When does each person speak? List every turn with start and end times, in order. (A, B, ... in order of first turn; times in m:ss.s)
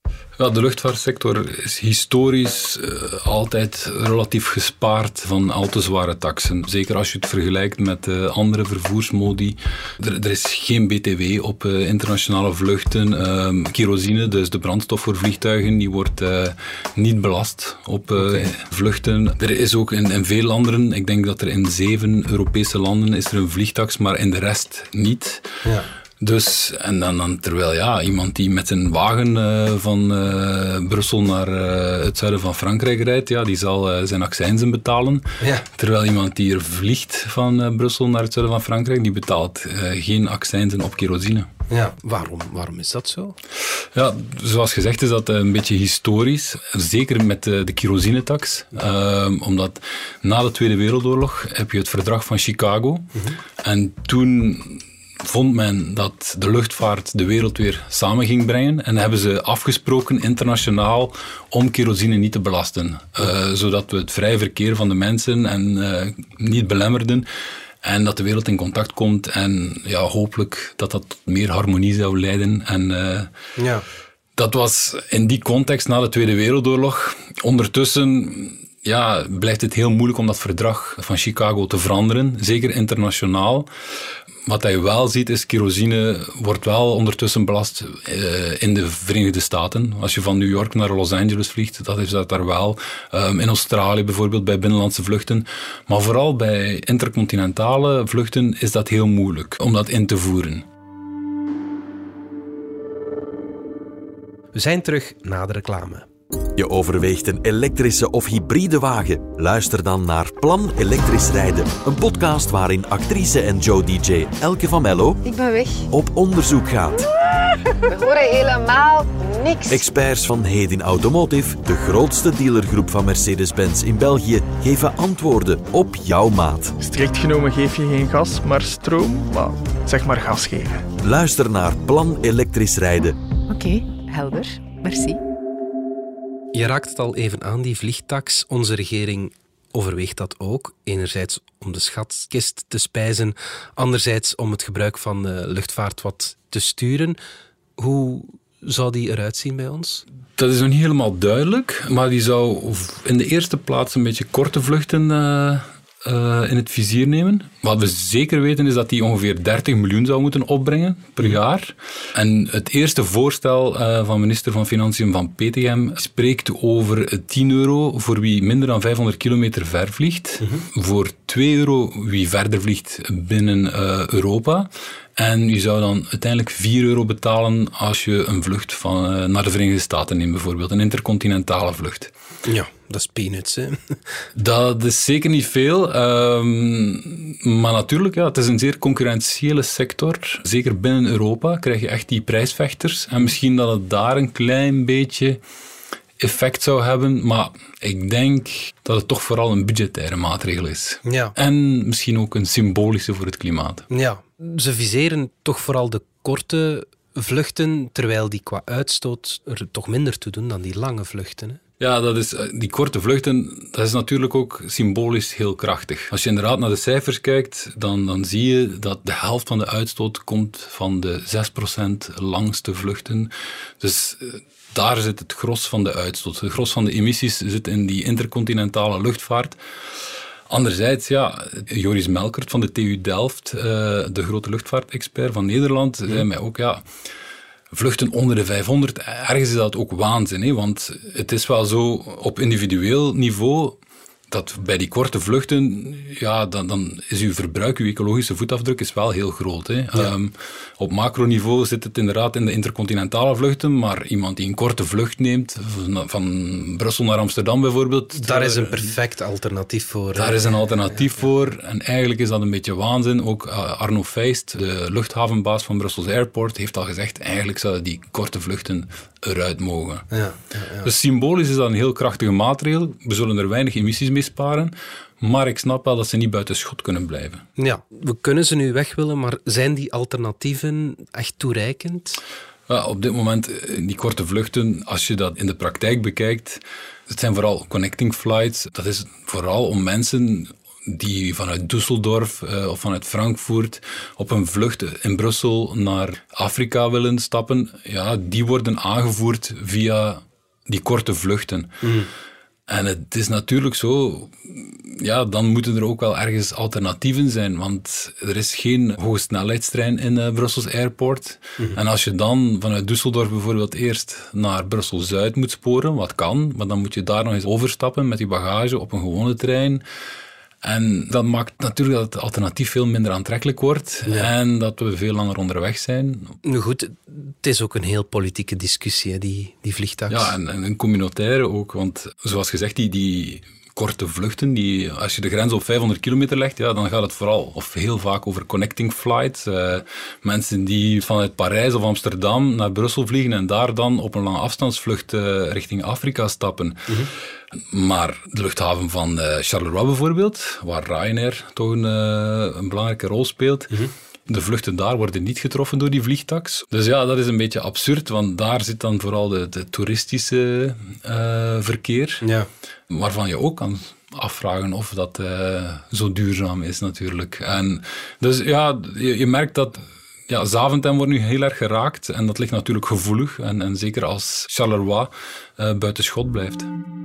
0:00.4-0:25.5 A
0:18.2-0:18.5 B
0:26.2-0:41.5 A
0:35.4-0:35.6 B
0:41.7-0:43.4 B
0:43.9-1:07.2 A
1:07.8-1:13.3 A
1:13.6-1:13.8 B
1:14.4-1:23.7 A
1:24.5-1:40.6 A
1:44.5-1:46.0 B
1:46.5-1:55.2 C
1:55.2-1:55.9 D
1:55.9-1:57.1 C
1:57.8-1:59.8 D
1:59.7-2:06.8 C
2:06.8-2:10.9 E
2:11.0-2:13.2 C
2:13.5-2:15.2 D
2:16.5-2:27.2 B
2:27.8-2:30.0 B
2:30.4-3:02.1 A
3:02.4-3:04.0 B
3:04.4-3:15.4 A
3:16.2-3:23.9 A
3:21.0-3:21.3 B
3:23.9-3:31.6 B
3:31.8-3:49.6 A
3:50.5-3:56.8 A
3:57.7-4:03.8 A
4:04.3-4:18.9 A
4:18.2-4:20.8 B
4:20.2-4:30.1 A
4:30.1-4:30.9 B
4:30.8-4:37.4 A
4:37.6-4:42.2 B
4:42.7-5:01.9 A
5:01.8-5:02.1 B
5:02.7-5:19.8 A
5:20.6-5:26.4 A
5:26.4-5:30.3 B
5:30.1-5:47.0 A
5:47.6-6:02.2 A
6:02.2-6:02.5 B
6:02.9-6:16.7 A